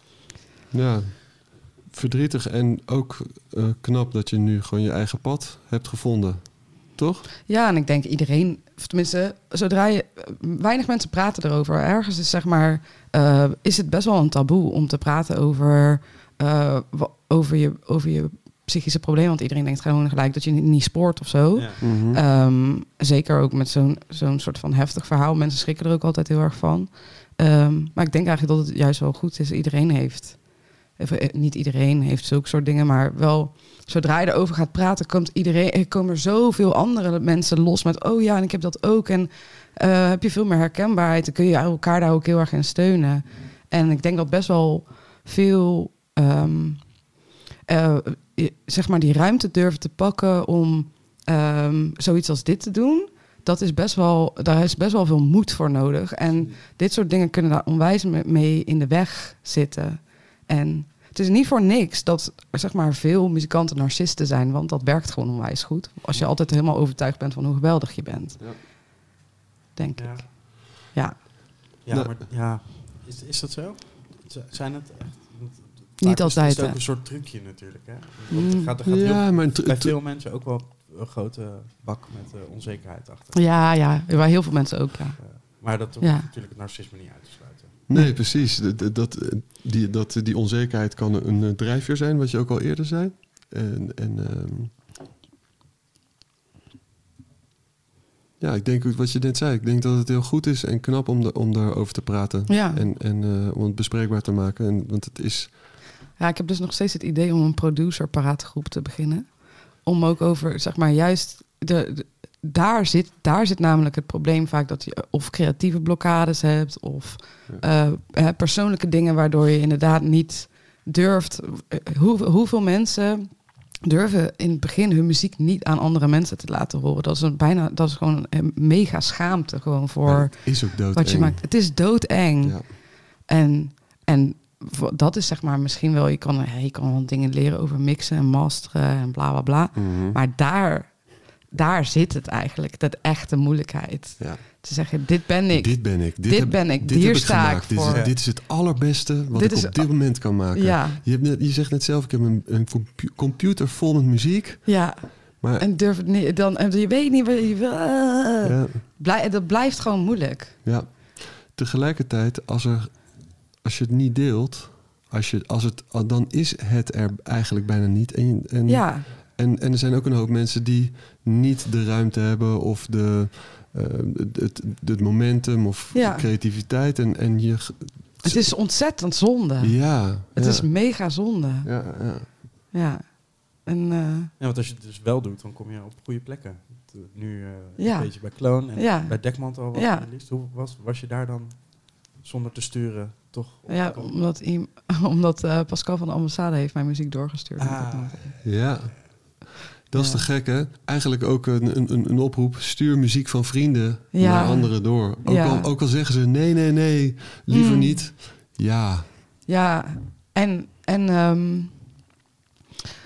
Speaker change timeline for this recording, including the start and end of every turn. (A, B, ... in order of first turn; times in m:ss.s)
0:00.7-0:07.3 A
0:07.5-1:08.5 B
0:21.8-0:22.2 A
1:06.1-1:06.4 C
1:09.8-1:11.2 B
1:10.0-1:10.4 C
1:11.8-1:23.7 C
1:11.9-1:12.2 A
1:16.0-1:16.8 B
1:18.3-1:18.7 B
1:18.8-1:20.0 A
1:23.3-1:26.3 B
1:25.2-1:27.8 C
1:27.9-1:34.7 A
1:38.4-1:45.6 A
1:42.5-1:42.8 B
1:46.2-2:28.1 B
2:10.0-2:11.7 A
2:12.4-2:12.7 A
2:19.8-2:20.2 A
2:24.2-2:24.4 A
2:25.5-2:35.7 A
2:27.9-2:28.2 C
2:29.3-2:31.0 B
2:34.7-2:40.6 B
2:38.4-2:38.8 A
2:40.6-2:58.6 A
2:48.7-2:49.1 B
2:55.9-2:56.3 B
2:58.2-3:01.9 B
2:59.6-3:00.9 A
3:01.6-3:02.4 A
3:02.7-3:04.3 B
3:04.4-3:14.2 C
3:07.8-3:10.1 B
3:13.7-3:18.4 B
3:17.6-3:18.4 C
3:18.4-3:29.1 A
3:19.9-3:20.3 B
3:24.1-3:25.7 B
3:27.5-3:28.0 B
3:29.5-3:32.0 B